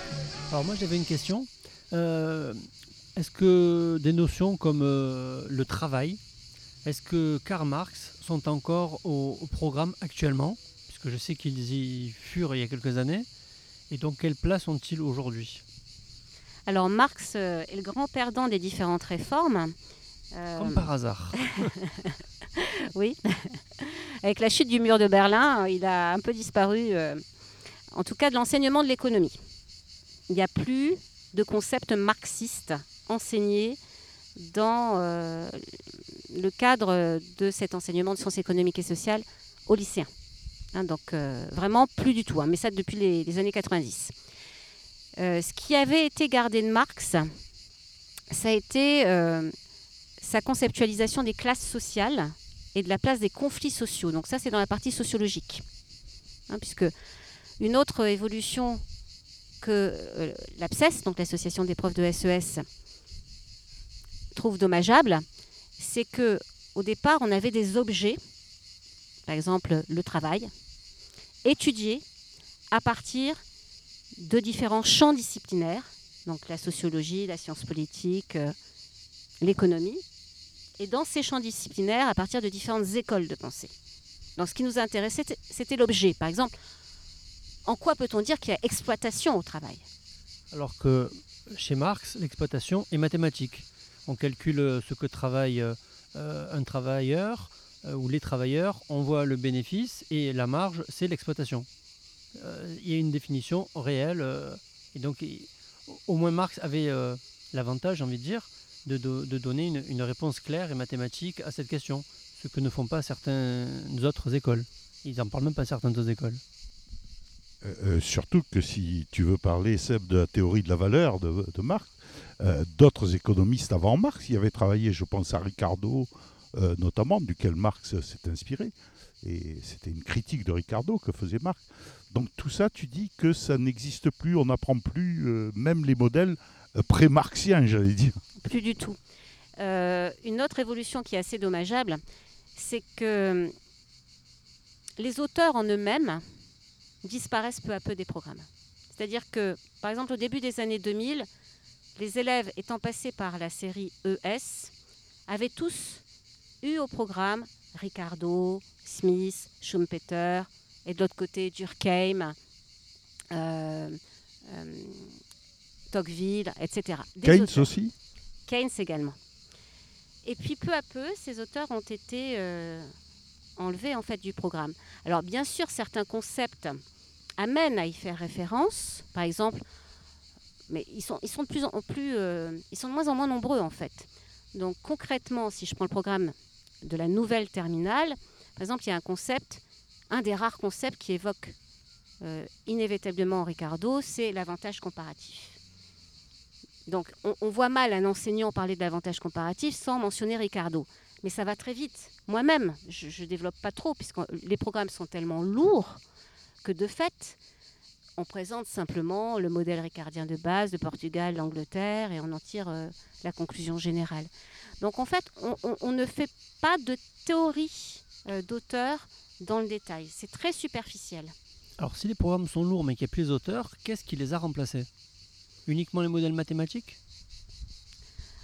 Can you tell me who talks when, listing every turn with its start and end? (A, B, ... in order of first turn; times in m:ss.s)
0:00.5-0:06.2 A
0:06.8-0:13.3 A
0:13.9-0:15.6 A
0:16.7-0:19.7 B
0:20.3-0:20.8 B
0:20.6-0:21.7 A
0:21.4-0:27.2 B
0:27.9-0:29.4 B
0:30.3-0:33.8 B
0:34.4-0:35.7 B
0:36.3-0:40.1 B
0:40.7-0:44.1 B
0:45.2-0:47.3 B
0:48.3-0:49.5 B
0:50.2-0:55.6 B
0:56.5-0:56.9 B
0:57.6-0:58.8 B
0:59.6-1:02.6 B
1:04.3-1:05.2 B
1:05.8-1:08.2 B
1:09.3-1:10.5 B
1:11.4-1:12.0 B
1:12.7-1:13.4 B
1:14.2-1:18.5 B
1:19.4-1:20.0 B
1:20.8-1:23.7 B
1:24.4-1:26.5 B
1:27.6-1:29.8 B
1:30.5-1:41.7 A
1:42.4-1:56.4 A
1:57.6-2:18.2 C
2:18.4-2:19.0 B
2:19.6-2:22.0 B
2:22.6-2:23.5 B
2:25.0-2:26.2 B
2:27.0-2:31.3 B
2:32.0-2:34.7 B
2:35.3-2:36.0 B
2:36.6-2:42.4 B
2:43.3-2:45.2 B
2:45.9-2:47.7 B
2:47.2-2:47.9 C
2:48.5-2:49.2 B
2:50.2-2:52.9 B
2:53.6-2:56.8 B
2:57.4-2:59.6 B
3:00.7-3:11.6 B
3:12.2-3:15.6 B
3:16.9-3:26.0 B
3:26.6-3:27.4 B
3:28.2-3:41.3 B
3:41.8-3:44.9 A
3:45.6-3:47.0 A